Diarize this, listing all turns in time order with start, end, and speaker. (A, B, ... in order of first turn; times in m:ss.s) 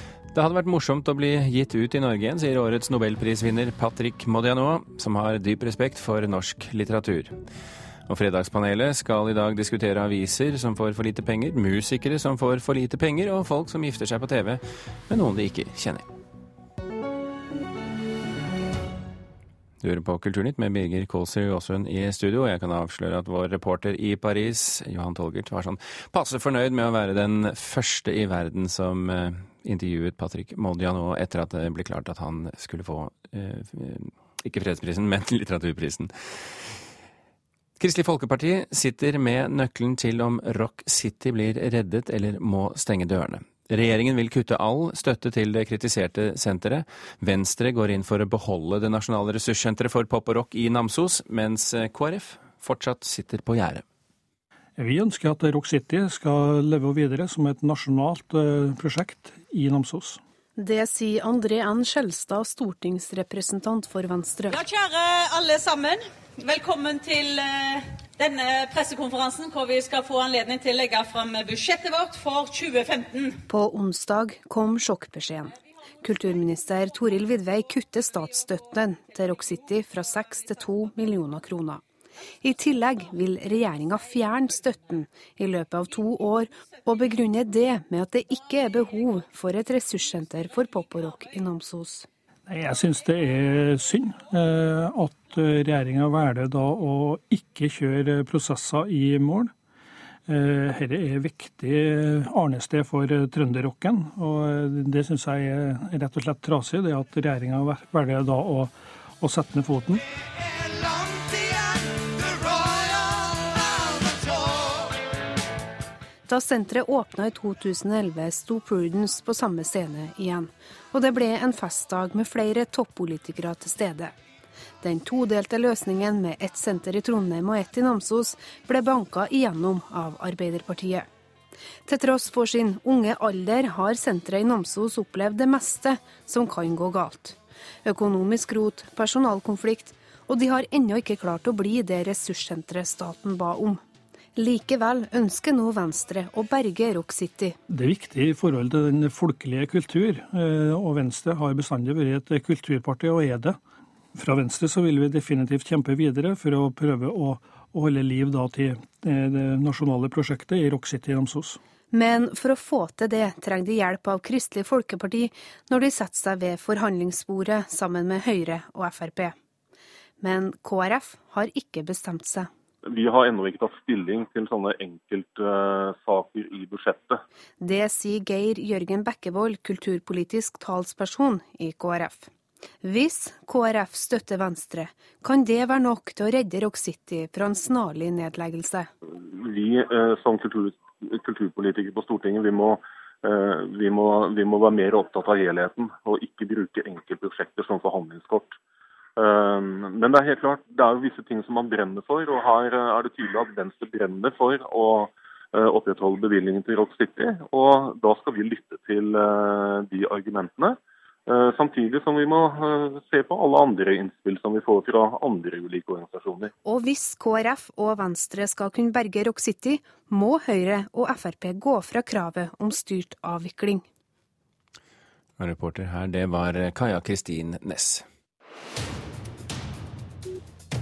0:00.3-0:07.4 A
0:08.1-0:16.1 A
0:19.8-0:36.1 A
0:37.8-0:53.8 A
0:54.8-1:00.2 B
1:00.6-1:04.6 C
1:04.5-1:13.4 D
1:13.5-1:21.8 C
1:22.4-1:32.1 C
1:32.5-1:39.5 B
1:40.3-1:50.0 B
1:56.3-2:04.2 C
2:04.8-2:11.1 C
2:11.9-2:23.8 C
2:24.4-2:27.6 C
2:27.7-2:33.6 B
2:34.2-2:41.6 B
2:41.9-2:49.4 C
2:50.2-2:52.5 C
2:52.9-2:57.2 E
2:57.6-3:02.3 C
3:02.8-3:08.9 C
3:09.2-3:18.6 E
3:19.2-3:36.5 E
3:36.6-3:43.8 C
3:45.4-3:48.0 A